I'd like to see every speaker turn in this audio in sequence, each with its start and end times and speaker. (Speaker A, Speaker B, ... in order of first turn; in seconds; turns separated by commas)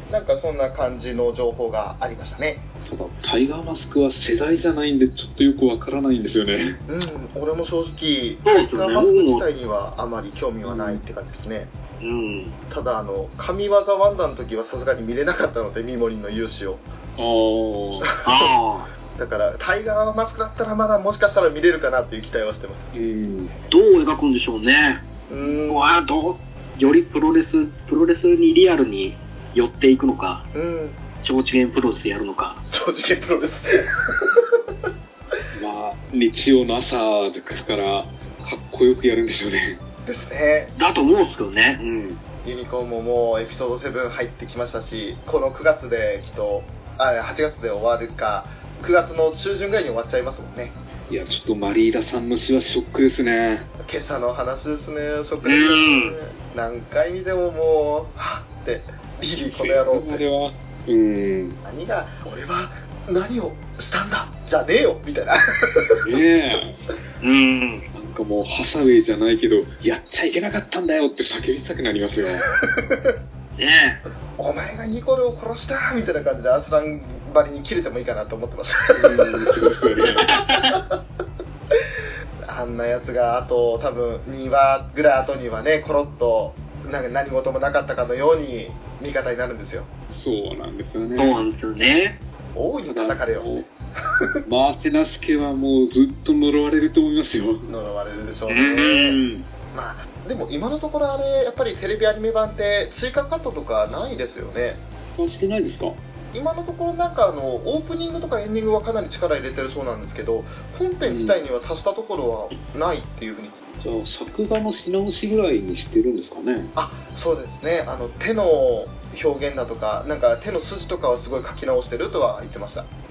Speaker A: 0.1-2.6, Speaker B: 2.8-6.8, Speaker A: 6.9-11.7, Speaker C: 8.4-9.4, Speaker B: 10.6-11.0, Speaker C: 12.0-12.5, Speaker A: 12.7-16.8, Speaker B: 17.2-18.1, Speaker A: 18.1-18.5, Speaker C: 18.2-18.9, Speaker A: 19.1-22.8, Speaker B: 22.9-23.5, Speaker C: 23.7-25.0, Speaker A: 25.3-26.0, Speaker C: 25.6-30.5, Speaker A: 30.5-31.0, Speaker C: 31.2-32.6, Speaker A: 32.7-34.4, Speaker B: 35.5-39.8, Speaker A: 40.1-40.7, Speaker C: 40.8-42.2, Speaker A: 42.4-50.8, Speaker B: 51.1-53.7, Speaker A: 53.8-60.2, Speaker C: 55.4-56.2, Speaker B: 59.5-61.6, Speaker A: 61.6-66.2, Speaker B: 66.1-66.8, Speaker C: 67.2-67.9, Speaker B: 67.9-72.4, Speaker A: 72.6-73.1, Speaker C: 73.6-74.0, Speaker A: 74.4-79.3, Speaker B: 79.0-80.4, Speaker C: 80.3-80.6, Speaker A: 80.7-81.0, Speaker A: 82.5-89.9, Speaker B: 90.1-91.4, Speaker C: 91.2-92.2, Speaker A: 92.5-93.5, Speaker B: 92.9-93.7, Speaker B: 94.5-97.7, Speaker A: 97.7-99.2, Speaker C: 98.5-99.5, Speaker A: 99.7-104.8, Speaker B: 105.2-106.0, Speaker A: 106.3-113.6, Speaker B: 111.0-111.4, Speaker B: 113.8-116.7, Speaker A: 116.8-122.9